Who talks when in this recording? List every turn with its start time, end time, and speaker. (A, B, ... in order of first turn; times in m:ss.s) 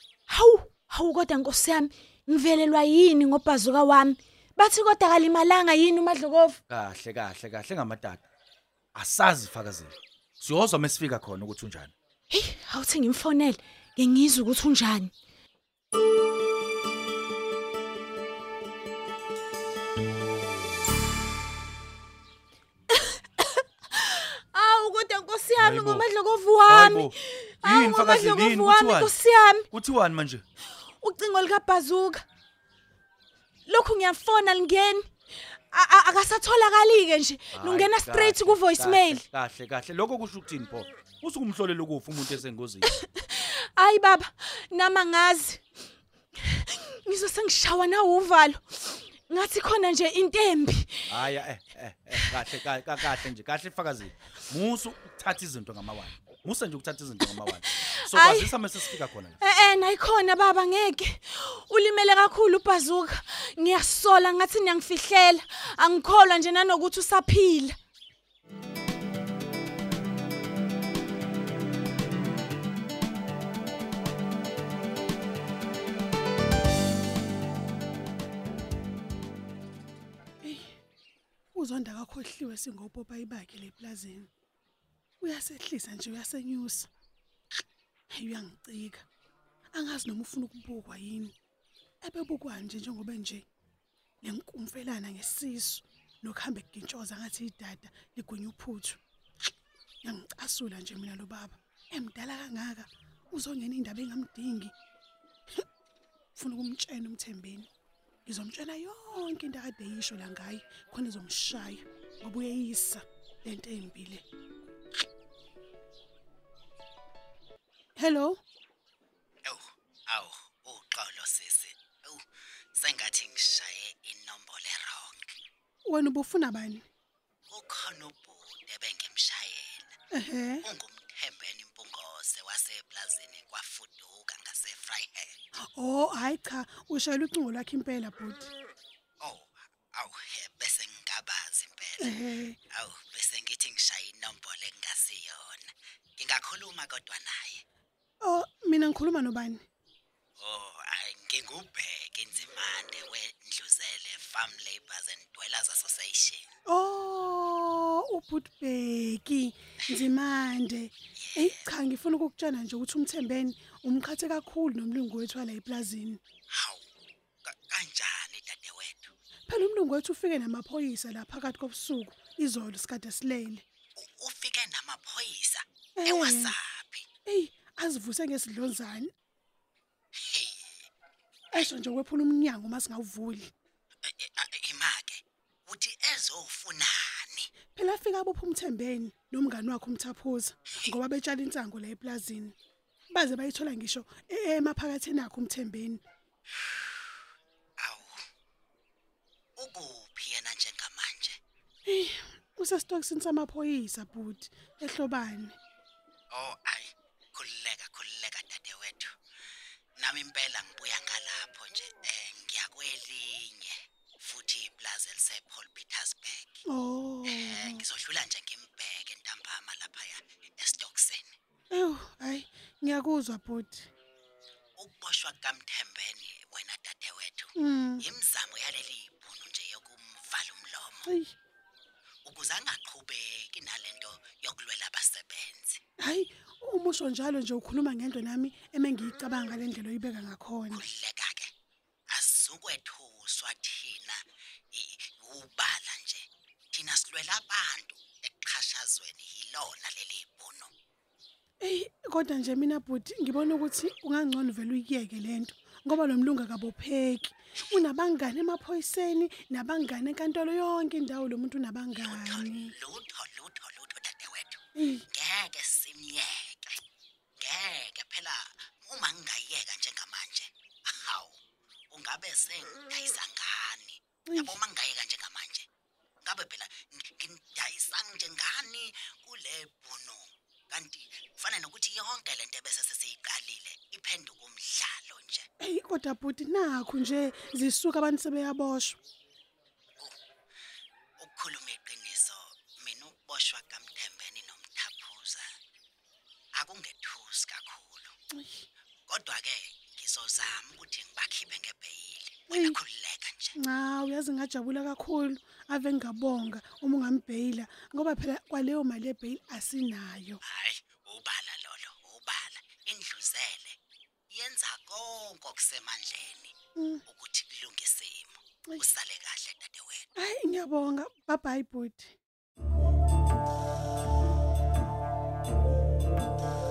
0:00.3-0:06.6 A
0:06.7-0:08.2 B
0:09.0-0:11.9 B
0:12.3-0:15.1 A
0:22.9-0:29.7 A
0:25.6-0:26.0 B
0:26.7-0:29.1 B
0:29.7-0:30.4 B
0:30.8-0:32.2 A
0:33.7-0:35.1 A
0:35.7-0:39.2 A
0:37.5-0:42.9 B
0:42.8-0:45.6 A
0:46.4-0:51.2 A
0:51.1-0:59.4 B
0:57.3-1:07.8 A
1:20.4-1:20.8 C
1:21.6-1:24.3 C
1:25.2-1:26.9 C
1:28.1-1:29.0 C
1:29.7-1:31.3 C
1:32.0-1:33.5 C
1:34.2-1:39.0 C
1:40.0-1:44.7 C
1:46.4-1:47.7 C
1:48.3-1:54.2 C
1:58.0-1:58.4 C
1:59.5-2:02.2 D
2:02.8-2:05.2 D
2:05.9-2:06.8 C
2:07.5-2:10.0 D
2:10.1-2:10.6 C
2:10.6-2:15.4 D
2:15.8-2:18.5 C
2:19.2-2:22.1 D
2:22.0-2:22.6 C
2:22.8-2:27.6 D
2:28.2-2:29.6 C
2:30.4-2:36.5 D
2:36.7-2:46.2 C
2:41.2-2:41.6 D
2:46.5-2:46.9 D
2:47.5-2:49.1 D
2:49.5-2:53.6 C
2:54.0-2:57.1 D
2:56.0-2:56.6 C
2:57.3-2:59.1 C
3:00.3-3:00.9 D
3:01.5-3:03.5 C
3:04.1-3:07.5 D
3:07.7-3:12.6 C
3:13.1-3:16.0 C
3:17.8-3:18.2 D
3:19.6-3:21.4 D
3:21.9-3:25.6 C
3:26.3-3:29.1 D
3:30.0-3:36.6 D
3:36.7-3:37.8 C
3:37.3-3:41.3 D
3:41.7-3:43.9 C
3:44.8-3:51.1 D
3:47.6-3:48.0 C
3:51.1-3:51.3 C
3:52.2-3:55.8 D
3:56.0-4:00.9 C
4:00.7-4:01.5 D
4:02.1-4:04.2 D
4:04.7-4:10.7 D
4:11.6-4:22.7 C
4:21.9-4:26.8 D
4:24.8-4:25.1 C
4:27.4-4:31.4 D
4:31.9-4:35.7 D
4:34.3-4:34.6 C
4:36.2-4:45.5 D
4:45.6-4:49.0 C
4:51.2-4:55.5 D
4:56.6-4:58.2 D
4:58.4-4:58.6 C
4:59.1-5:03.6 D
5:02.5-5:02.8 C
5:03.6-5:10.4 C
5:10.4-5:13.8 D
5:14.3-5:16.5 D
5:16.8-5:17.0 C
5:17.1-5:20.1 D
5:20.2-5:22.1 C